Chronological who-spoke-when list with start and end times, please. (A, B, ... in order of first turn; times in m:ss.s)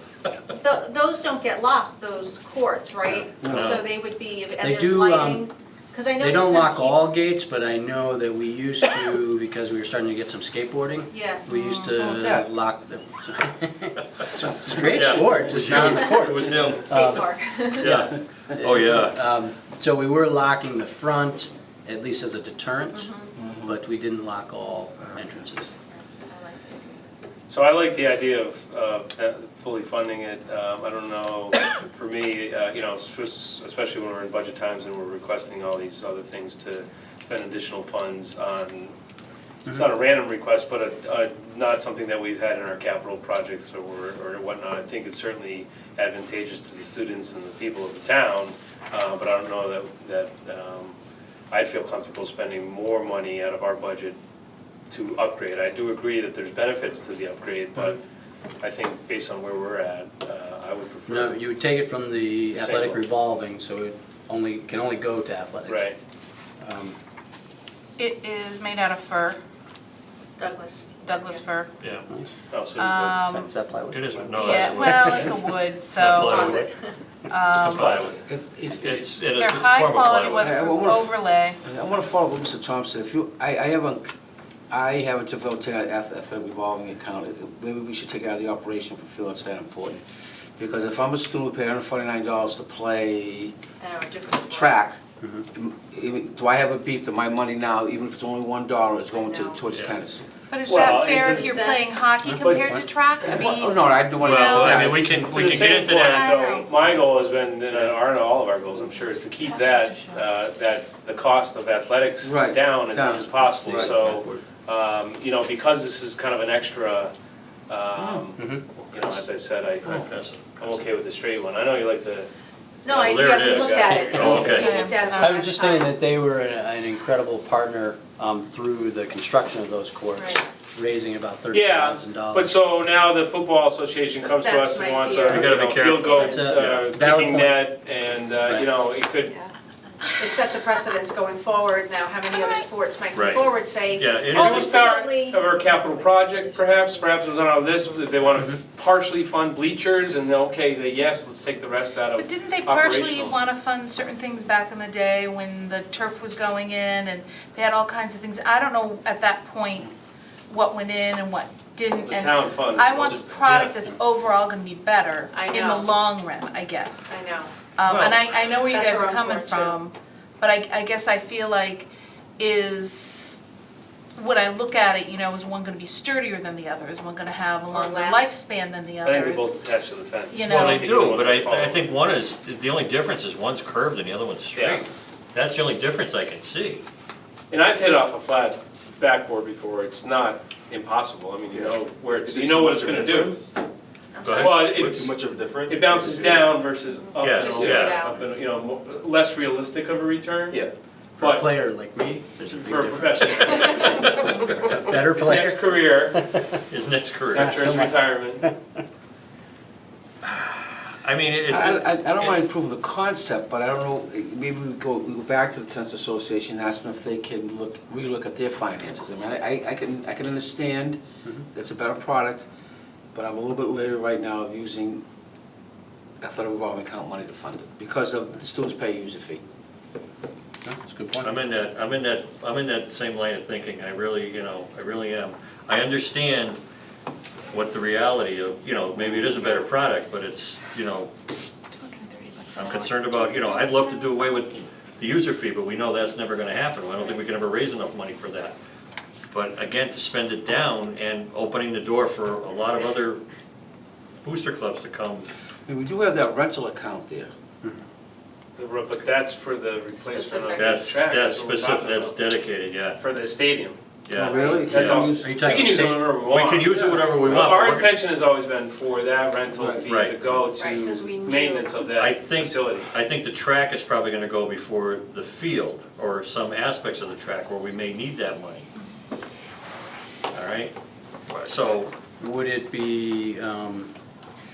0:00.5-0:07.1 A
0:03.4-0:03.8 B
0:03.4-0:03.9 C
0:04.6-0:05.5 D
0:06.2-0:23.1 D
0:11.1-0:11.5 A
0:11.5-0:12.0 E
0:12.0-0:12.5 B
0:14.4-0:15.6 B
0:14.9-0:19.2 C
0:16.9-0:18.0 A
0:22.9-0:23.3 A
0:23.4-0:23.8 B
0:23.6-0:25.7 D
0:25.9-0:27.0 A
0:27.5-0:38.9 F
0:39.7-0:51.0 F
0:51.5-0:54.2 F
0:54.9-0:58.0 F
0:58.6-1:01.4 F
1:01.1-1:05.9 D
1:02.5-1:03.0 F
1:05.7-1:06.0 F
1:06.6-1:07.0 D
1:08.0-1:09.4 E
1:10.4-1:11.4 A
1:11.0-1:11.7 E
1:12.5-1:13.2 F
1:12.8-1:13.5 E
1:13.2-1:15.3 D
1:13.9-1:15.2 C
1:14.2-1:14.5 F
1:14.4-1:16.4 E
1:16.0-1:16.7 C
1:16.1-1:16.9 A
1:17.3-1:18.0 E
1:17.5-1:20.5 C
1:17.8-1:19.3 B
1:19.3-1:21.6 E
1:20.3-1:24.1 B
1:24.7-1:30.0 B
1:30.6-1:33.6 B
1:33.8-1:34.8 A
1:34.5-1:35.0 B
1:35.5-1:40.3 B
1:39.2-1:39.6 A
1:40.5-1:43.8 E
1:40.6-1:41.5 F
1:40.8-1:42.1 A
1:42.2-1:42.8 D
1:43.2-1:45.2 B
1:44.2-1:46.4 C
1:44.4-1:44.8 E
1:44.9-1:57.1 F
1:46.1-1:46.7 A
1:46.1-1:46.7 E
1:49.4-1:50.2 E
1:52.2-1:54.0 B
1:53.0-1:54.4 D
1:57.7-2:02.3 F
1:58.0-1:58.2 B
1:58.4-1:58.6 D
1:59.8-2:00.8 C
2:02.8-2:05.9 A
2:02.9-2:04.7 F
2:02.9-2:04.8 C
2:03.9-2:12.5 D
2:04.6-2:05.3 E
2:10.2-2:10.4 A
2:11.5-2:19.3 F
2:14.4-2:16.4 A
2:15.3-2:16.9 C
2:16.2-2:17.6 D
2:18.4-2:18.7 D
2:20.2-2:27.2 A
2:23.2-2:24.8 C
2:24.3-2:33.4 F
2:32.2-2:39.9 E
2:40.5-2:47.2 E
2:42.0-2:43.7 F
2:45.3-2:45.9 A
2:47.1-2:49.8 A
2:47.8-2:53.4 E
2:54.2-2:59.5 E
2:57.7-2:58.4 A
2:59.0-3:01.9 F
3:00.3-3:00.8 E
3:00.6-3:06.8 C
3:04.6-3:04.9 F
3:07.5-3:13.3 F
3:11.5-3:13.6 G
3:14.1-3:14.7 A
3:14.2-3:15.2 C
3:14.3-3:14.8 F
3:14.6-3:16.7 G
3:15.7-3:20.6 F
3:17.1-3:18.2 A
3:17.2-3:18.1 C
3:21.2-3:21.5 F
3:21.2-3:26.6 D
3:22.5-3:24.3 F
3:24.3-3:24.8 C
3:24.9-3:26.2 F
3:26.7-3:27.6 C
3:27.3-3:28.4 F
3:27.4-3:28.6 D
3:30.2-3:32.4 C
3:31.5-3:41.0 B
3:41.5-3:42.5 B
3:43.1-3:45.0 B
3:46.2-3:49.4 B
3:50.6-3:51.3 D
3:51.2-3:56.6 C
3:57.5-4:01.1 C
4:01.8-4:03.8 E
4:02.6-4:08.6 C
4:09.3-4:13.2 C
4:14.2-4:15.3 C
4:15.7-4:17.3 B
4:18.6-4:22.2 F
4:20.0-4:20.8 A
4:20.6-4:23.0 C
4:23.0-4:23.8 F
4:24.1-4:25.1 C
4:24.1-4:25.3 B
4:24.4-4:32.9 F
4:25.1-4:26.1 D
4:26.2-4:28.0 C
4:29.6-4:29.9 B
4:29.9-4:30.2 C
4:30.5-4:31.8 A
4:32.0-4:38.7 C
4:40.3-4:40.7 C
4:41.3-4:41.9 C
4:42.2-4:43.9 D